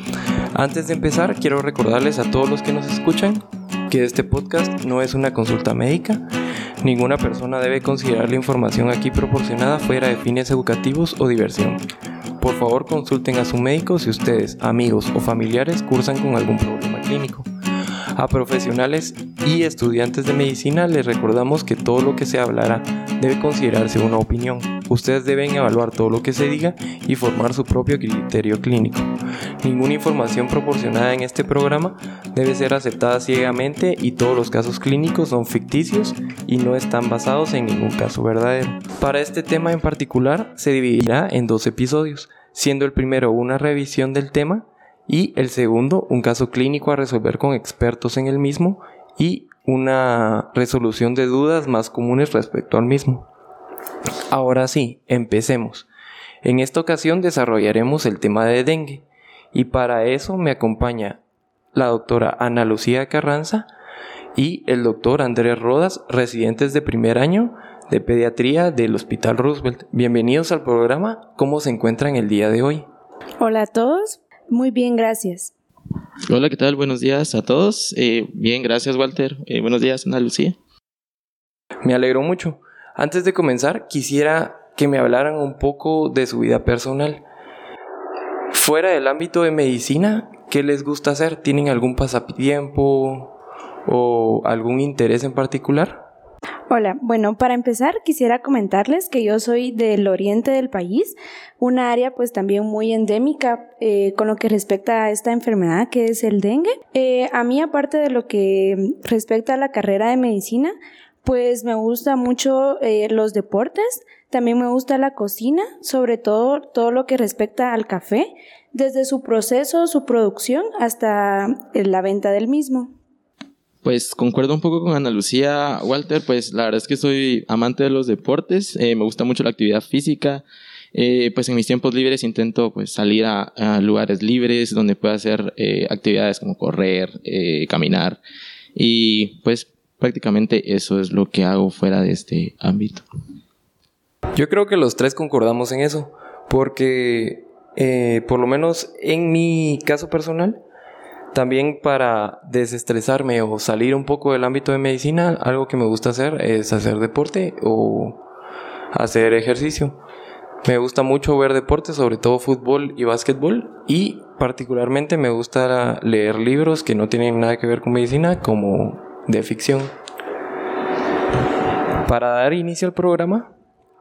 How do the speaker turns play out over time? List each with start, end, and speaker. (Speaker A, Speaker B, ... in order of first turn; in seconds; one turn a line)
Speaker A: 0.5-6.2
Speaker A: 6.8-11.8
Speaker A: 12.4-17.5
Speaker A: 18.1-53.3
Speaker A: 54.3-55.9
Speaker A: 56.4-61.2
Speaker A: 61.7-63.7
Speaker A: 64.3-72.8
Speaker B: 73.4-75.5
Speaker C: 76.3-80.5
Speaker A: 81.8-87.2
Speaker A: 88.5-93.3
Speaker A: 93.9-96.0
Speaker B: 96.7-122.9
Speaker C: 123.8-138.2
Speaker C: 138.7-143.0
Speaker A: 144.3-150.6
Speaker A: 151.3-158.2
Speaker A: 158.9-160.0
Speaker A: 160.6-169.9
Speaker A: 172.0-173.5